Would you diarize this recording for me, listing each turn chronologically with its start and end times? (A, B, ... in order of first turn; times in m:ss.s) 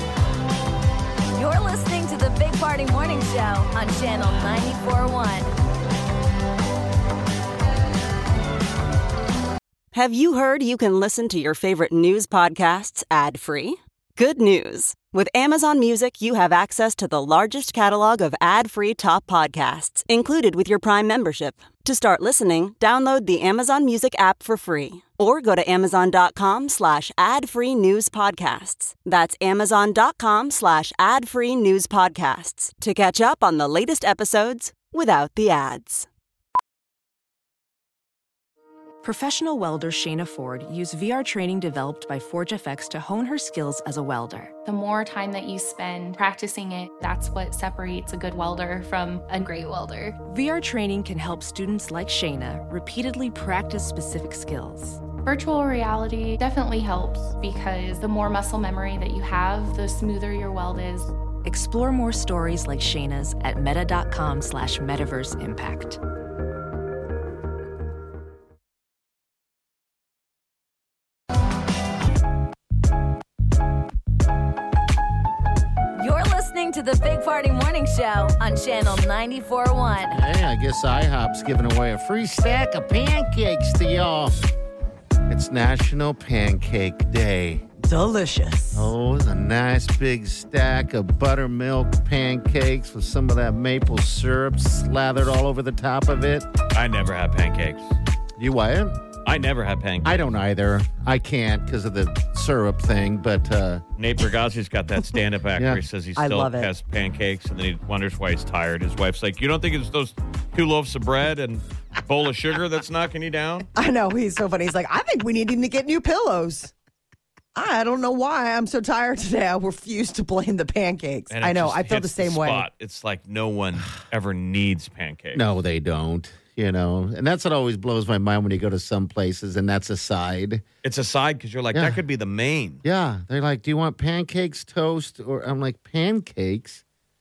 0:01.4-0:05.5 A
0:09.9-0:36.1 B
0:39.0-0:44.5 C
0:44.6-0:50.2 D
0:50.3-0:55.0 C
0:55.2-1:01.1 D
1:01.4-1:06.0 C
1:16.0-1:20.2 A
1:20.1-1:24.4 E
1:25.3-1:27.6 E
1:27.8-1:28.9 F
1:28.7-1:36.5 E
1:36.7-1:38.0 G
1:38.4-1:39.0 E
1:39.2-1:40.3 G
1:40.0-1:43.8 E
1:44.0-1:53.7 G
1:45.6-1:45.8 E
1:46.2-1:46.7 F
1:53.8-1:56.7 F
1:57.6-2:02.7 F
2:01.3-2:05.5 G
2:05.3-2:10.6 E
2:10.8-2:12.8 G
2:11.7-2:12.0 E
2:12.8-2:16.8 E